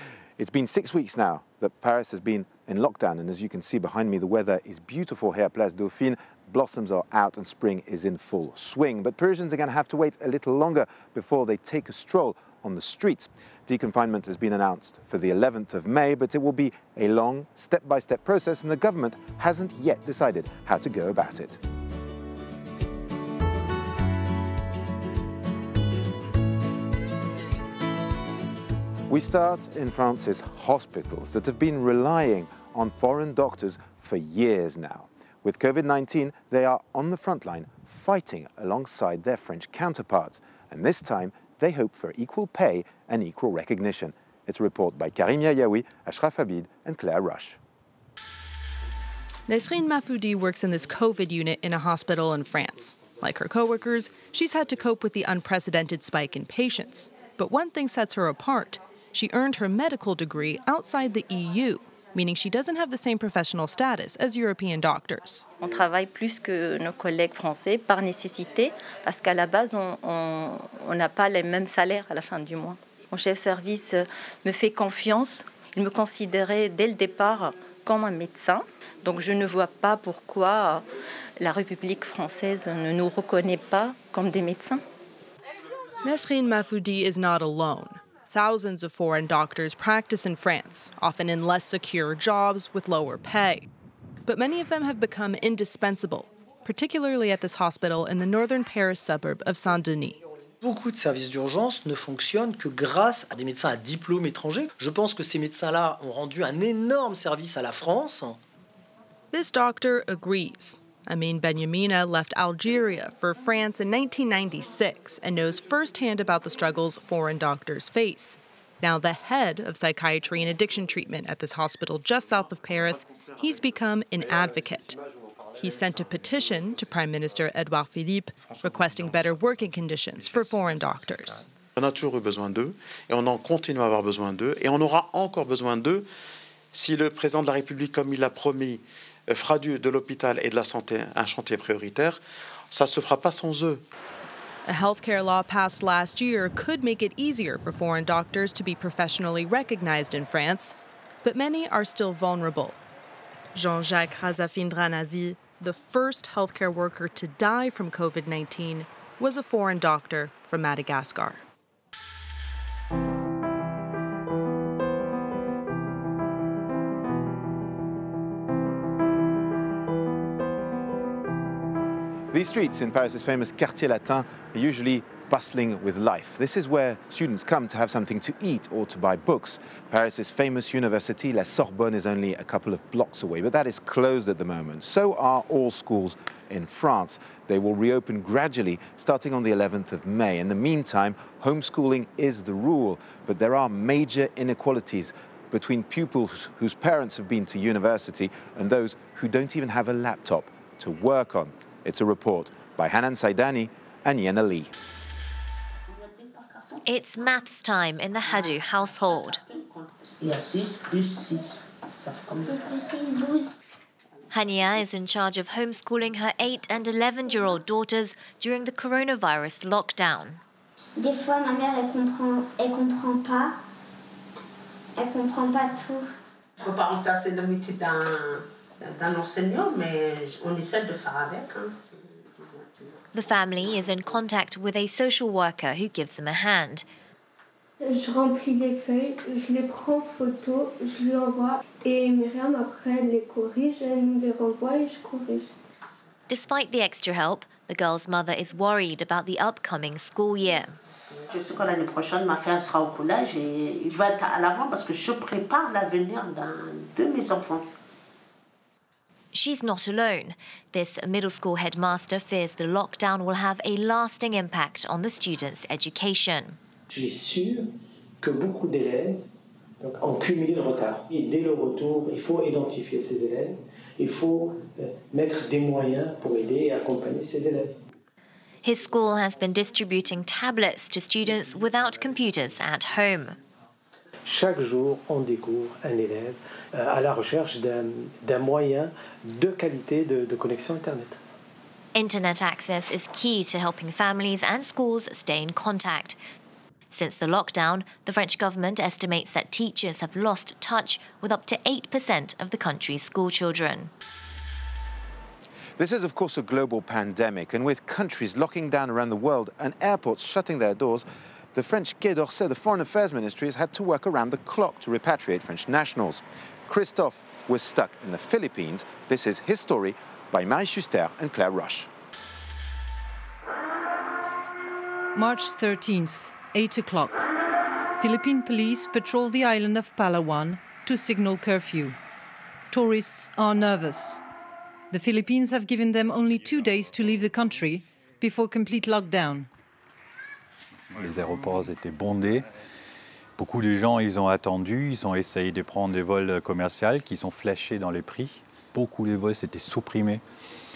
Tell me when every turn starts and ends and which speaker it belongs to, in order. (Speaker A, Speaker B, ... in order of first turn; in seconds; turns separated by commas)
Speaker A: 0.4-21.6, Speaker A: 29.1-47.6, Speaker B: 49.5-65.5, Speaker C: 65.6-80.8, Speaker C: 81.4-84.8, Speaker B: 86.0-93.7, Speaker B: 94.2-100.2, Speaker D: 100.6-108.4, Speaker B: 109.3-125.0, Speaker B: 125.5-131.5, Speaker E: 131.8-136.1, Speaker E: 136.7-142.2, Speaker E: 142.7-143.8, Speaker B: 144.7-152.8, Speaker B: 153.5-161.4, Speaker A: 172.3-204.7, Speaker F: 205.9-206.8, Speaker G: 206.8-209.4, Speaker F: 209.5-213.2, Speaker H: 212.4-213.5, Speaker G: 214.3-220.4, Speaker H: 221.0-223.5, Speaker H: 225.0-226.0, Speaker F: 226.6-232.9, Speaker G: 233.1-236.8, Speaker I: 237.8-245.5, Speaker G: 246.3-250.7, Speaker F: 251.1-257.6, Speaker G: 259.3-266.6, Speaker J: 266.9-267.7, Speaker J: 268.2-269.2, Speaker J: 269.8-277.7, Speaker G: 278.6-283.4, Speaker J: 284.2-291.2, Speaker G: 291.9-296.2, Speaker G: 296.9-303.9, Speaker A: 305.8-321.9, Speaker K: 325.1-327.2, Speaker K: 328.0-332.0, Speaker K: 332.7-334.2, Speaker K: 334.9-339.5, Speaker L: 340.9-342.4, Speaker L: 343.4-350.2